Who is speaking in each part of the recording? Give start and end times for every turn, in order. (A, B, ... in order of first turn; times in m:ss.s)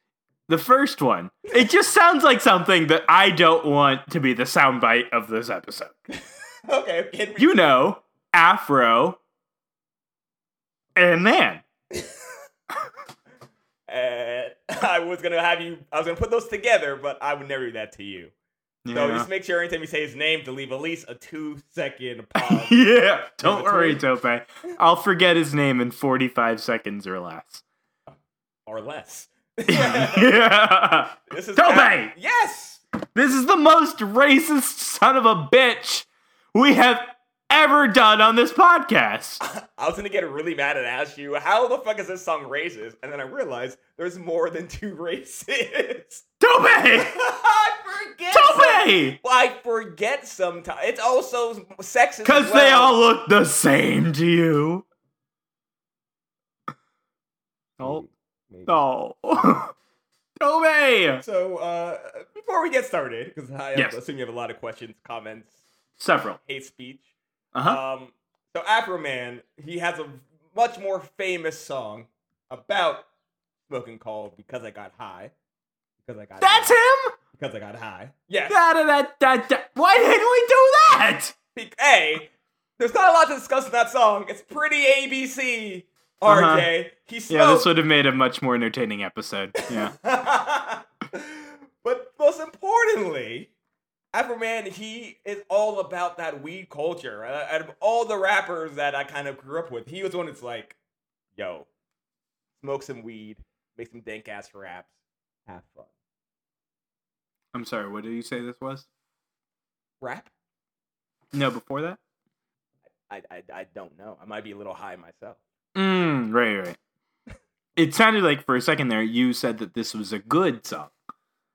0:00.5-0:06.0 A
0:06.1-0:07.7 B
0:07.4-0:09.2 A
0:11.0-0:11.6 A
0:13.9-0:18.3 B
0:18.8-0:19.3 A
0:18.9-0:22.8 B
0:22.4-0:27.6 A
0:23.4-0:24.0 B
0:28.7-0:30.4 B
0:29.7-0:32.1 A
0:31.3-0:32.8 B
0:33.1-0:39.4 A
0:39.4-0:46.2 B
0:46.4-0:47.2 A
0:46.9-0:53.0 B
0:48.3-0:49.2 A
0:52.2-0:54.8 A
0:57.8-0:58.8 B
0:58.7-0:59.7 A
1:00.4-1:01.2 A
1:01.2-1:05.6 B
1:06.0-1:06.4 A
1:06.5-1:07.1 B
1:07.5-1:07.8 A
1:07.6-1:13.1 B
1:13.7-1:15.3 B
1:16.0-1:16.8 B
1:16.4-1:17.2 A
1:17.3-1:18.6 B
1:18.5-1:21.4 A
1:21.6-1:27.7 B
1:26.2-1:26.7 A
1:27.3-1:30.0 A
1:29.6-1:33.5 B
1:34.1-1:40.8 B
1:41.4-1:41.7 B
1:42.6-1:44.9 B
1:45.5-1:45.9 B
1:47.5-1:48.9 A
1:50.0-1:50.3 B
1:51.3-1:52.0 A
1:53.1-1:55.4 B
1:55.8-1:56.8 A
1:57.8-2:00.9 A